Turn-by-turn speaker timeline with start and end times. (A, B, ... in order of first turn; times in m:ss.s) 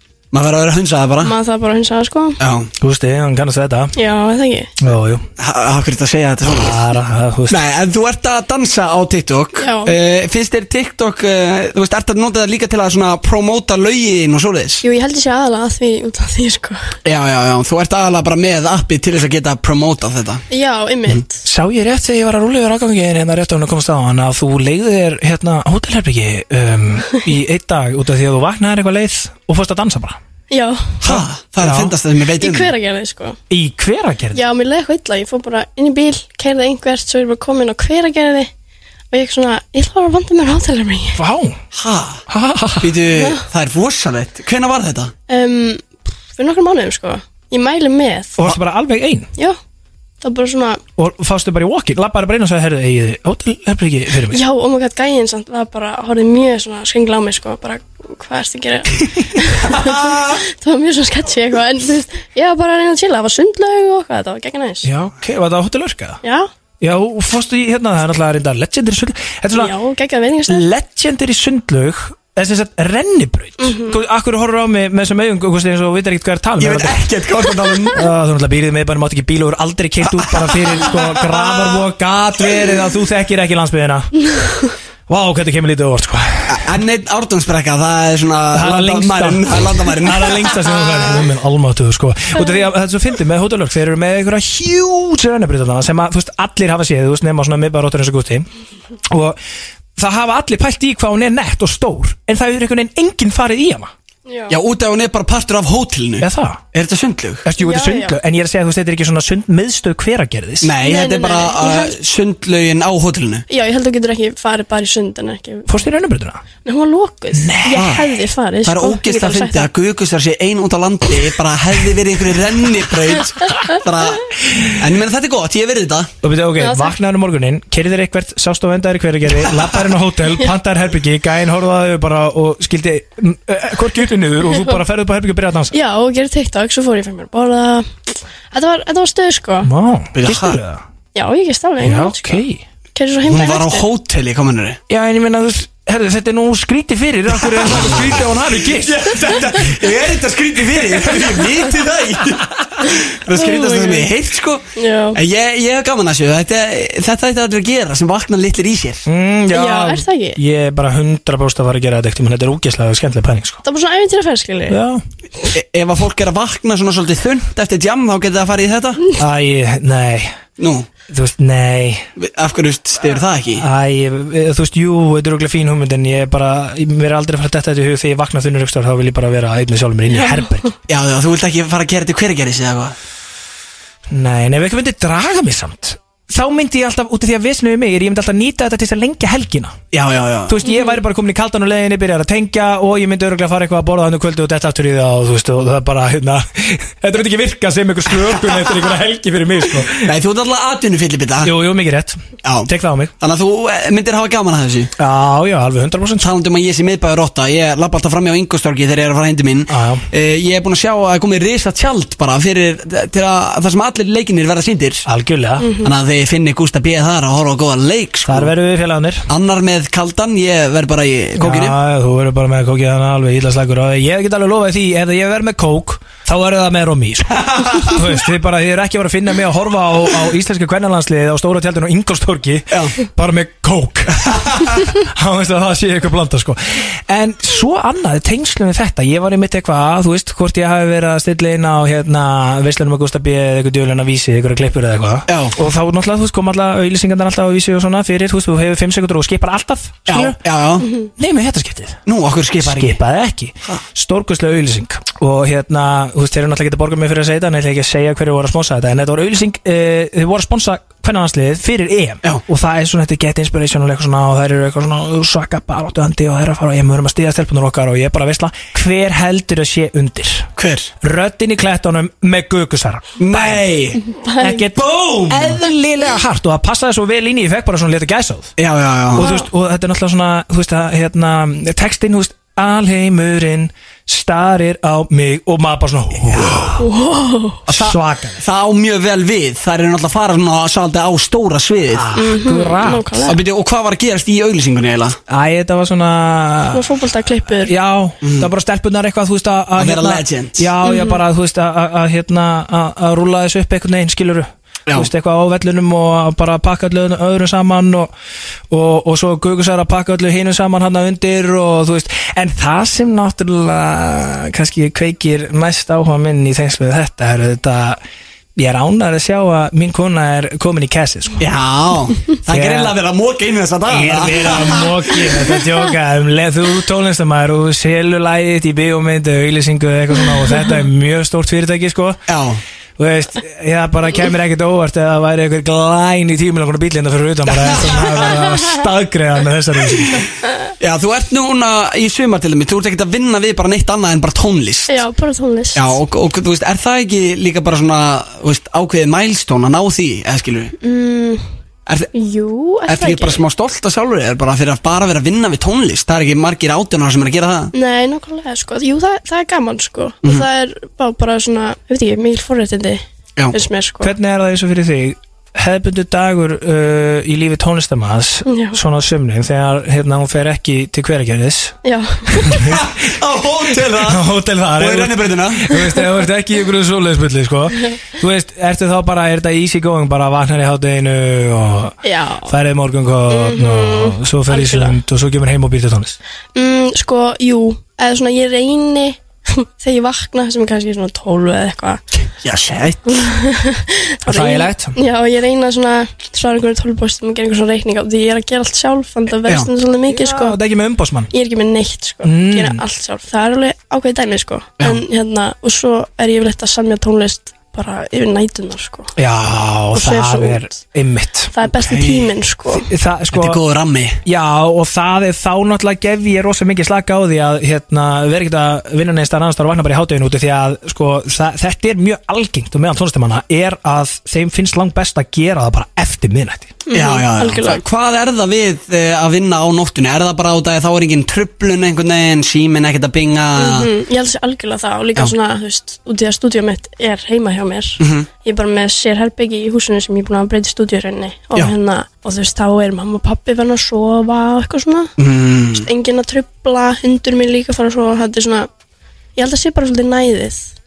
0:00.3-0:01.3 A
0:01.2-0:02.4 B
0:02.4-0:02.7 A
0:02.8-0:03.9 C
0:04.0-0:04.7 B
0:04.8-0:05.2 C
0:05.4-0:06.8 A
0:06.5-0:07.6 C
0:07.5-0:14.8 A
0:09.6-0:09.9 B
0:14.8-0:16.8 B
0:17.0-0:20.4 A
0:20.5-0:21.4 B
0:21.4-0:30.2 C
0:30.5-0:31.0 B
0:31.0-0:32.7 A
0:31.0-0:31.9 C
0:32.4-0:33.4 B
0:33.5-0:34.4 C
0:34.3-0:38.5 B
0:39.1-0:41.2 B
0:41.2-0:41.6 C
0:41.7-0:42.2 A
0:42.3-0:43.0 C
0:42.8-0:45.1 A
0:43.1-0:43.4 B
0:45.3-0:48.4 B
0:48.4-0:49.3 C
0:50.2-0:50.8 B
0:51.0-0:54.4 C
0:54.3-1:04.9 B
1:04.8-1:06.2 C
1:06.2-1:06.5 B
1:06.8-1:09.7 C
1:09.5-1:10.7 B
1:10.5-1:17.1 C
1:13.6-1:14.0 B
1:16.6-1:18.0 A
1:17.9-1:24.1 C
1:20.2-1:21.8 A
1:24.3-1:24.7 B
1:25.1-1:26.7 C
1:26.5-1:31.0 A
1:28.5-1:38.5 C
1:39.1-1:39.4 C
1:40.0-1:43.9 C
1:44.3-1:44.6 B
1:44.5-1:47.5 A
1:46.2-1:46.6 C
1:47.4-1:50.7 C
1:47.6-1:48.2 B
1:50.6-1:53.5 A
1:50.8-1:52.0 B
1:53.5-1:55.7 B
1:55.7-1:56.4 C
1:56.6-1:59.7 B
1:57.3-1:58.0 C
1:57.7-1:58.0 A
1:58.6-2:06.1 A
2:06.2-2:15.8 C
2:06.6-2:07.0 B
2:15.7-2:17.9 B
2:18.5-2:19.7 B
2:19.6-2:20.8 C
2:20.2-2:20.6 A
2:21.1-2:22.4 B
2:21.8-2:22.6 C
2:23.0-2:23.8 B
2:23.3-2:24.8 A
2:24.9-2:29.2 C
2:27.6-2:39.1 A
2:33.3-2:34.1 B
2:34.8-2:35.2 B
2:39.1-2:43.6 C
2:39.5-2:40.4 B
2:43.6-2:44.8 B
2:44.7-2:45.0 C
2:45.5-2:49.0 A
2:49.2-2:50.4 C
2:50.6-2:50.9 A
2:51.1-2:52.1 C
2:52.2-2:53.7 A
2:53.6-3:00.7 C
3:00.9-3:03.0 A
3:04.1-3:09.8 C
3:09.9-3:10.6 A
3:10.5-3:20.1 C
3:10.6-3:11.0 B
3:19.9-3:21.5 A
3:21.4-3:23.1 C
3:22.4-3:24.9 A
3:25.0-3:26.3 C
3:26.2-3:35.1 A
3:29.7-3:30.1 C
3:35.1-3:35.7 C
3:35.6-3:35.9 B
3:35.8-3:38.5 A
3:38.3-3:39.3 C
3:39.3-3:41.8 A
3:41.4-4:10.4 C
3:47.5-3:47.9 A
3:52.7-3:53.0 A
4:05.3-4:05.6 A
4:10.1-4:10.9 A
4:11.1-4:12.0 C
4:12.1-4:13.0 A
4:12.6-4:30.5 C
4:30.6-4:30.9 A
4:31.0-4:33.6 C
4:33.2-4:34.0 A
4:34.0-4:34.6 B
4:34.4-4:38.5 C
4:34.8-4:35.6 A
4:38.6-4:39.3 A
4:39.1-4:46.8 C
4:39.2-4:39.5 B
4:46.2-4:46.8 A
4:46.8-4:47.6 B
4:47.7-4:52.1 A
4:47.7-4:48.4 C
4:51.9-4:53.2 C
4:52.2-4:53.4 B
4:53.3-4:55.2 A
4:55.3-4:56.9 C
4:56.7-4:57.7 B
4:57.5-5:08.1 C
4:58.2-4:58.5 A
4:59.8-5:00.7 A
5:00.8-5:01.2 B
5:08.7-5:18.0 C
5:18.6-5:21.4 C
5:21.4-5:25.0 A
5:22.5-5:23.0 C
5:23.9-5:32.2 C
5:32.3-5:32.6 A
5:33.0-5:40.2 C
5:37.5-5:38.4 A
5:40.8-5:45.0 A
5:44.9-5:46.0 B
5:45.8-5:50.7 A
5:50.8-5:51.4 B
5:52.1-5:53.4 B
5:52.9-5:57.7 A
5:57.7-6:04.1 B
6:04.0-6:11.8 C
6:08.5-6:08.8 B
6:11.8-6:12.7 B
6:12.4-6:12.8 C
6:12.7-6:15.8 A
6:14.0-6:26.2 C
6:22.0-6:22.6 B
6:23.3-6:25.0 B
6:26.6-6:32.0 B
6:32.4-6:33.0 A
6:33.1-6:40.6 B
6:34.3-6:35.0 C
6:40.1-6:41.3 C
6:41.3-6:49.1 B
6:42.2-6:42.8 C
6:49.2-6:51.5 C
6:49.9-6:50.8 B
6:51.5-6:52.9 B
6:51.7-6:52.3 A
6:52.7-6:53.6 C
6:53.3-6:54.2 A
6:54.2-7:06.8 C
7:06.9-7:07.8 B
7:06.9-7:13.9 A
7:13.6-7:25.1 B
7:18.0-7:18.3 A
7:25.2-7:25.9 A
7:25.7-7:28.7 B
7:29.4-7:30.7 B